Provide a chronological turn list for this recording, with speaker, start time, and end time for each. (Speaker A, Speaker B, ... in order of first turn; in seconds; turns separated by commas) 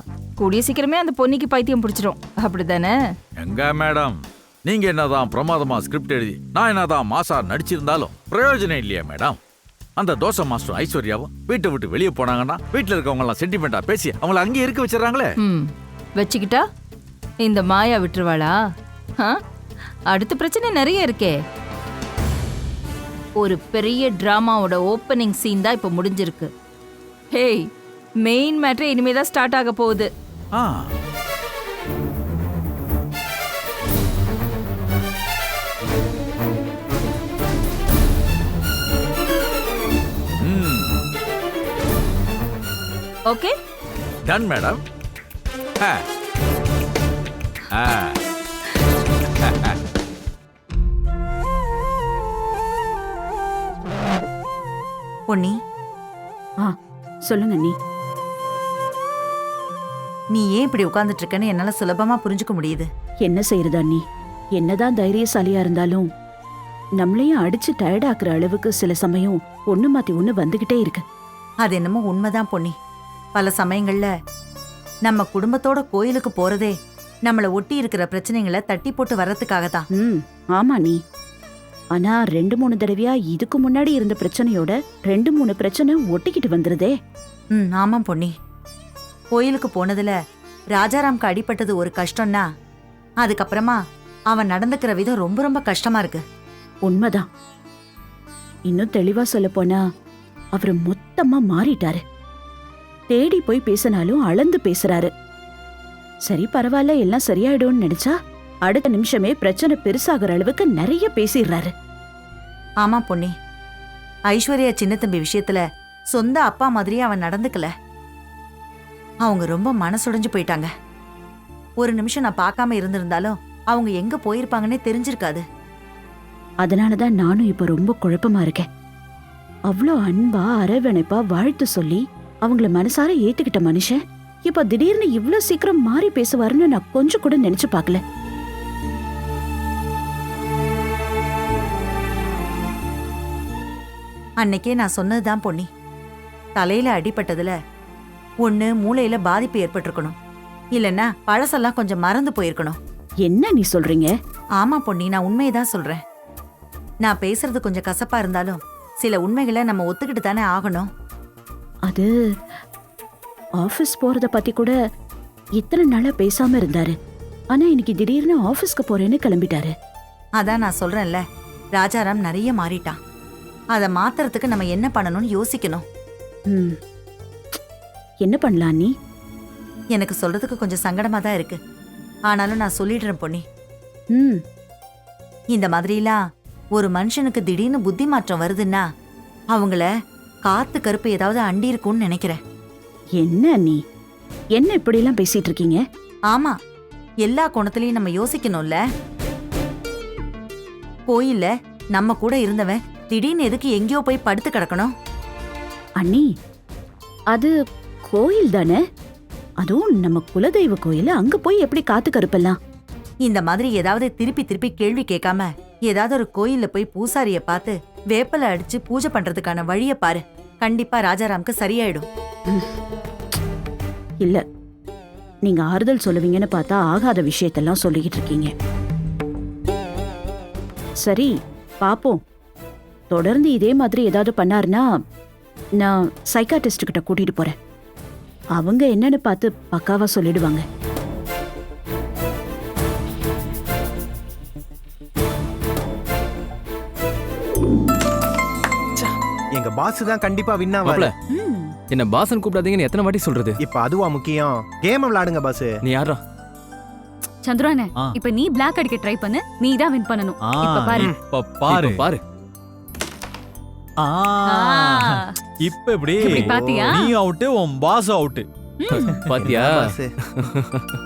Speaker A: 0.4-2.9, Speaker B: 3.4-9.4, Speaker B: 10.0-15.3, Speaker A: 15.4-16.6, Speaker A: 17.4-18.5, Speaker A: 20.1-21.4, Speaker A: 23.4-26.5, Speaker A: 27.3-27.7, Speaker A: 28.2-30.1, Speaker B: 30.5-30.9, Speaker B: 40.4-41.0, Speaker A: 43.3-43.5, Speaker B: 44.3-44.8, Speaker B: 47.7-48.1, Speaker B: 49.4-49.8, Speaker C: 55.3-55.5, Speaker D: 57.3-57.7, Speaker C: 60.3-62.9, Speaker D: 63.2-64.0, Speaker D: 64.6-66.0, Speaker D: 67.0-71.0, Speaker C: 71.6-72.7, Speaker C: 73.3-74.1, Speaker C: 75.1-76.7, Speaker C: 77.3-79.8, Speaker D: 79.9-81.0, Speaker D: 82.0-86.9, Speaker C: 87.5-88.3, Speaker C: 89.3-90.1, Speaker C: 90.7-92.4, Speaker C: 93.2-93.8, Speaker C: 94.3-96.2, Speaker D: 96.9-97.2, Speaker D: 98.7-99.8, Speaker D: 100.6-102.0, Speaker D: 103.1-105.1, Speaker D: 106.3-108.1, Speaker D: 108.7-111.7, Speaker C: 112.8-113.3, Speaker C: 114.3-117.7, Speaker C: 119.2-120.7, Speaker C: 121.8-125.4, Speaker D: 126.6-128.7, Speaker D: 129.7-138.0, Speaker C: 144.4-145.7, Speaker C: 146.6-147.5, Speaker C: 148.4-150.2, Speaker C: 150.7-152.8, Speaker D: 153.2-154.1, Speaker C: 154.6-156.0, Speaker C: 157.0-160.9, Speaker D: 163.6-164.7, Speaker D: 165.6-166.9, Speaker D: 167.5-169.7, Speaker C: 170.4-171.2, Speaker C: 171.8-173.0, Speaker C: 173.7-175.8, Speaker D: 176.5-176.8, Speaker D: 178.2-178.9, Speaker C: 179.9-181.6, Speaker C: 182.3-183.4, Speaker C: 185.5-186.2, Speaker C: 186.8-188.8, Speaker C: 189.5-189.9, Speaker C: 190.5-192.4, Speaker D: 193.2-193.8, Speaker D: 194.6-195.8, Speaker C: 197.2-198.8, Speaker C: 201.1-204.9, Speaker D: 206.0-206.2, Speaker D: 208.1-208.8, Speaker D: 209.6-212.6, Speaker C: 213.2-222.1, Speaker D: 225.5-228.5, Speaker D: 231.0-231.3, Speaker D: 231.8-232.2, Speaker D: 233.1-234.8, Speaker D: 235.8-237.6, Speaker D: 238.6-240.6, Speaker E: 249.0-251.1, Speaker F: 250.8-251.1, Speaker G: 251.3-251.7, Speaker F: 251.9-253.6, Speaker E: 253.6-255.8, Speaker F: 255.8-256.2, Speaker G: 257.4-261.1, Speaker H: 260.4-262.0, Speaker F: 261.7-262.2, Speaker H: 264.0-265.1, Speaker G: 264.4-265.4, Speaker H: 265.6-268.4, Speaker G: 266.1-267.2, Speaker E: 266.4-266.9, Speaker G: 268.8-269.1, Speaker F: 268.9-270.9, Speaker E: 269.0-270.1